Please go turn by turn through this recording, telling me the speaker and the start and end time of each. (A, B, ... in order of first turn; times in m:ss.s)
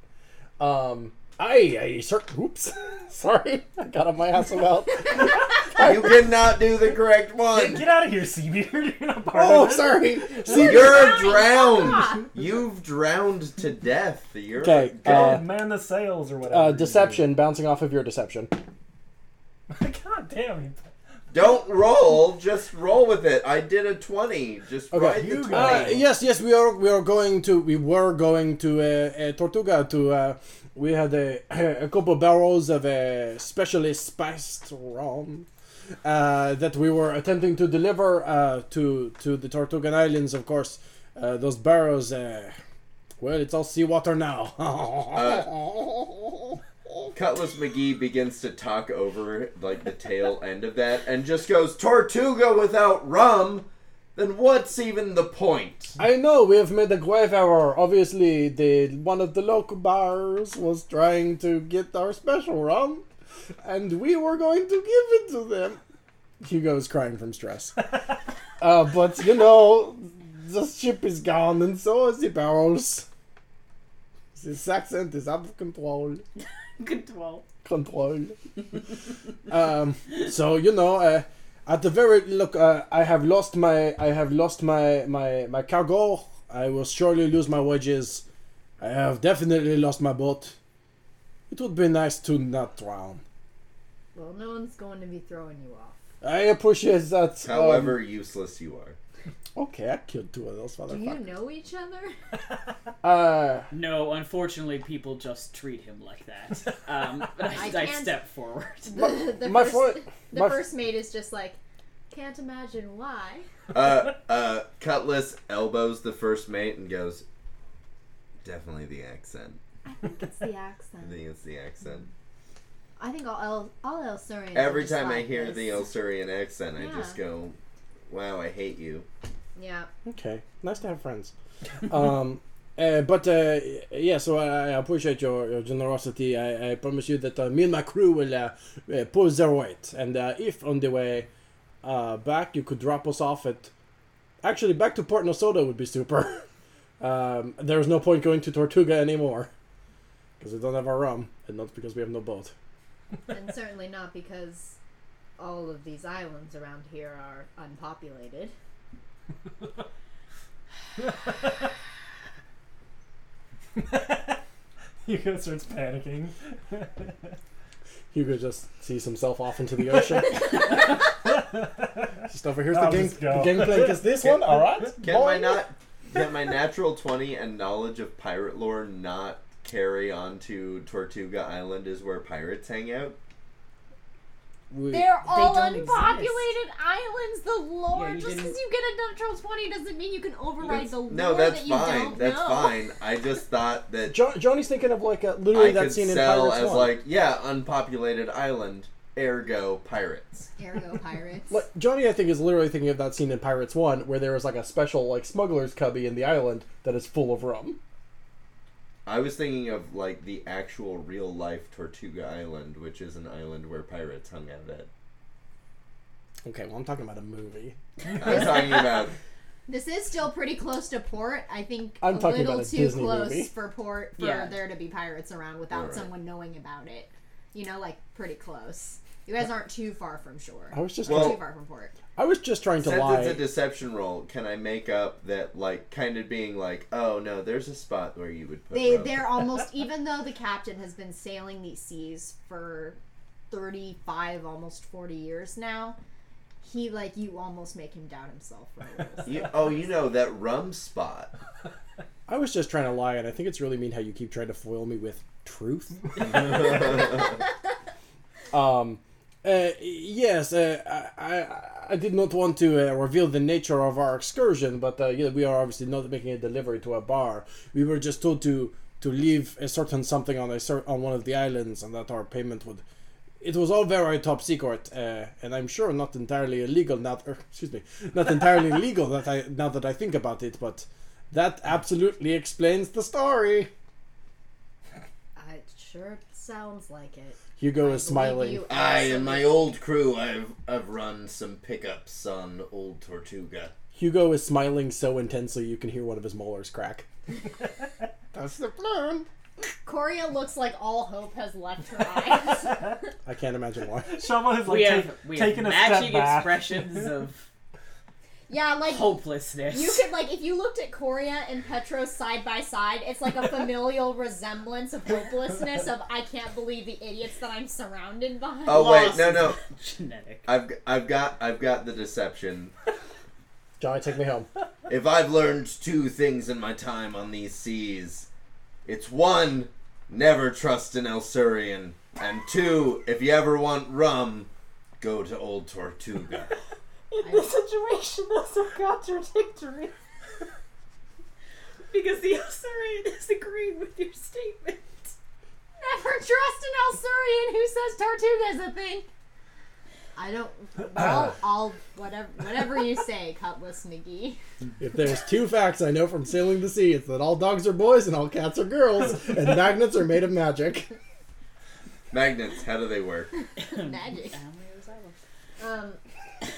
0:00.6-0:06.3 A
0:05.7-0:07.8 B
0:07.5-0:10.5 C
0:09.3-0:11.1 A
0:10.5-0:15.4 B
0:10.5-0:12.2 D
0:14.6-0:15.4 A
0:15.0-0:17.2 C
0:16.5-0:18.5 A
0:19.7-0:20.9 C
0:21.3-0:26.0 B
0:24.9-0:35.5 A
0:25.5-0:26.0 C
0:36.0-0:42.6 A
0:43.2-0:47.1 A
0:45.1-0:45.5 B
0:47.1-0:56.0 B
0:56.0-1:03.0 A
1:03.6-1:05.8 A
1:06.4-1:07.8 A
1:08.6-1:13.0 A
1:14.3-1:16.2 A
1:16.8-1:17.4 E
1:17.6-1:18.8 A
1:19.4-1:28.2 A
1:28.8-1:30.6 A
1:31.5-1:33.2 A
1:34.1-1:35.9 D
1:36.2-1:38.0 A
1:37.4-1:39.0 B
1:39.6-1:41.2 A
1:40.9-1:42.1 D
1:43.0-1:43.7 A
1:43.7-1:49.0 E
1:47.5-1:48.2 D
1:48.9-1:51.6 D
1:49.0-1:50.6 A
1:52.1-1:53.5 D
1:53.7-1:57.2 B
1:58.4-1:59.6 B
1:59.8-2:01.2 D
2:01.0-2:02.1 B
2:03.0-2:05.8 D
2:04.5-2:09.0 B
2:06.8-2:07.2 D
2:09.6-2:09.9 D
2:10.0-2:11.3 A
2:11.8-2:21.3 A
2:21.8-2:23.7 A
2:24.4-2:26.4 A
2:27.0-2:29.5 A
2:30.4-2:32.5 A
2:33.3-2:34.8 D
2:35.4-2:38.5 D
2:43.7-2:44.4 C
2:45.0-2:47.4 C
2:48.1-2:50.6 A
2:51.2-2:52.1 C
2:52.3-2:55.6 A
2:52.7-2:54.9 C
2:55.0-3:03.2 B
3:04.7-3:05.1 A
3:04.9-3:12.8 D
3:05.2-3:06.5 E
3:07.9-3:08.6 E
3:10.6-3:14.2 B
3:14.1-3:17.0 A
3:15.5-3:20.5 B
3:20.6-3:21.6 D
3:21.5-3:27.8 A
3:29.0-3:34.9 B
3:36.4-3:37.8 A
3:38.1-3:39.1 B
3:39.7-3:51.9 D
3:42.0-3:43.5 A
3:44.2-3:44.6 E
3:45.7-3:46.1 B
3:50.7-3:51.4 A
3:51.0-3:51.4 B
3:52.2-3:53.4 A
3:52.8-3:59.3 B
3:58.7-4:03.0 D
4:03.5-4:06.0 D
4:06.6-4:09.8 D
4:09.2-4:11.3 B
4:12.3-4:16.4 A
4:16.7-4:17.1 B
4:18.5-4:32.8 A
4:33.4-4:43.7 A
4:45.4-4:49.7 D
4:47.6-4:48.6 A
4:48.7-4:53.7 B
4:53.9-4:57.0 A
4:58.3-4:59.3 A
4:59.8-5:03.0 D
5:03.2-5:04.2 A
5:04.1-5:07.2 C
5:04.6-5:07.5 E
5:08.5-5:18.9 D
5:08.8-5:10.0 E
5:18.6-5:19.6 B
5:18.7-5:20.5 E
5:20.4-5:22.7 B
5:23.8-5:24.5 A
5:24.9-5:28.3 B
5:28.8-5:36.5 B
5:37.1-5:39.9 E
5:37.2-5:37.5 D
5:41.9-5:45.1 E
5:45.8-5:49.1 D
5:50.2-5:54.4 D
5:54.8-6:00.9 A
6:02.1-6:03.3 B
6:03.4-6:04.4 D
6:03.6-6:05.2 E
6:05.6-6:06.0 D